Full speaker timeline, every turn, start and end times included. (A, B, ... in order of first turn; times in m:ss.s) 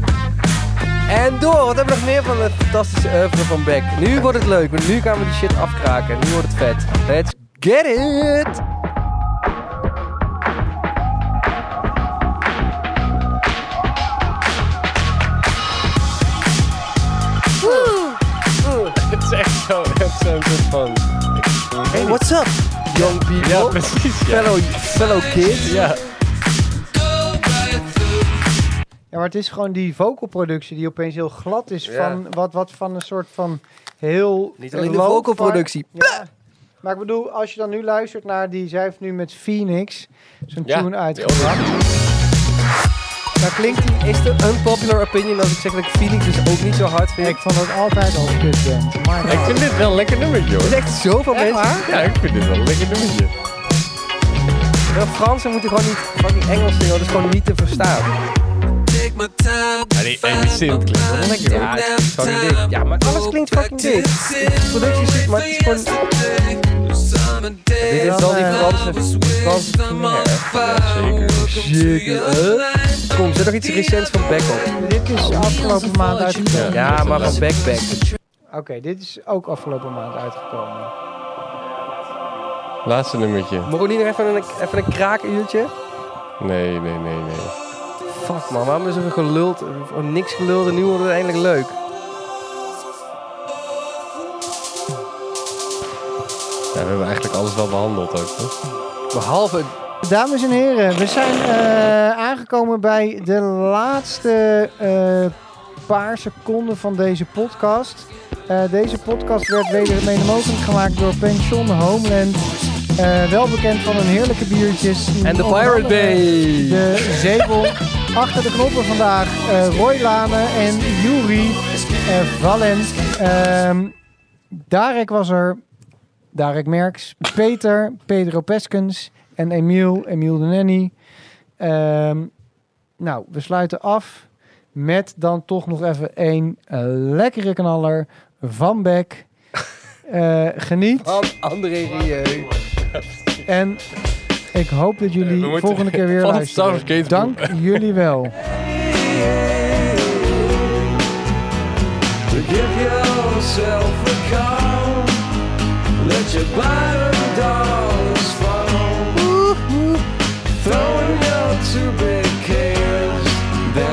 0:01.1-0:08.6 A
0:17.6-0:18.9 A
0:18.9-0:22.3 B
0:21.9-0:25.8 A
0:22.9-0:24.6 B
0:25.5-0:26.1 B
0:29.1-0:36.3 C
0:31.8-0:32.2 B
0:34.6-0:36.2 A
0:36.8-0:41.7 C
0:40.6-0:41.7 B
0:43.4-0:44.0 C
0:43.6-0:47.4 A
0:47.2-0:49.8 C
0:49.2-0:50.8 B
0:50.6-0:52.1 A
0:51.3-0:51.9 C
0:51.8-0:53.3 B
0:54.9-0:58.1 A
0:59.9-1:01.9 B
1:01.5-1:06.0 A
1:07.8-1:10.5 A
1:07.9-1:08.8 C
1:10.5-1:11.6 B
1:11.4-1:14.7 A
1:14.8-1:17.3 C
1:16.5-1:17.5 B
1:16.7-1:18.1 A
1:18.5-1:20.9 C
1:22.8-1:23.7 B
1:23.6-1:25.7 A
1:26.4-1:27.5 B
1:28.1-1:31.8 A
1:36.7-1:38.5 B
1:39.1-1:39.7 A
1:40.0-1:45.3 C
1:45.8-2:03.9 C
1:55.2-1:56.9 A
2:04.6-2:05.6 C
2:06.3-2:10.9 C
2:11.6-2:12.3 C
2:13.0-2:19.3 C
2:20.1-2:21.2 C
2:21.0-2:22.5 A
2:22.8-2:23.4 B
2:23.4-2:23.8 C
2:24.5-2:28.3 C
2:25.2-2:27.9 B
2:32.3-2:34.3 D
2:36.7-2:38.0 D
2:39.2-2:40.0 A
2:40.7-2:43.3 D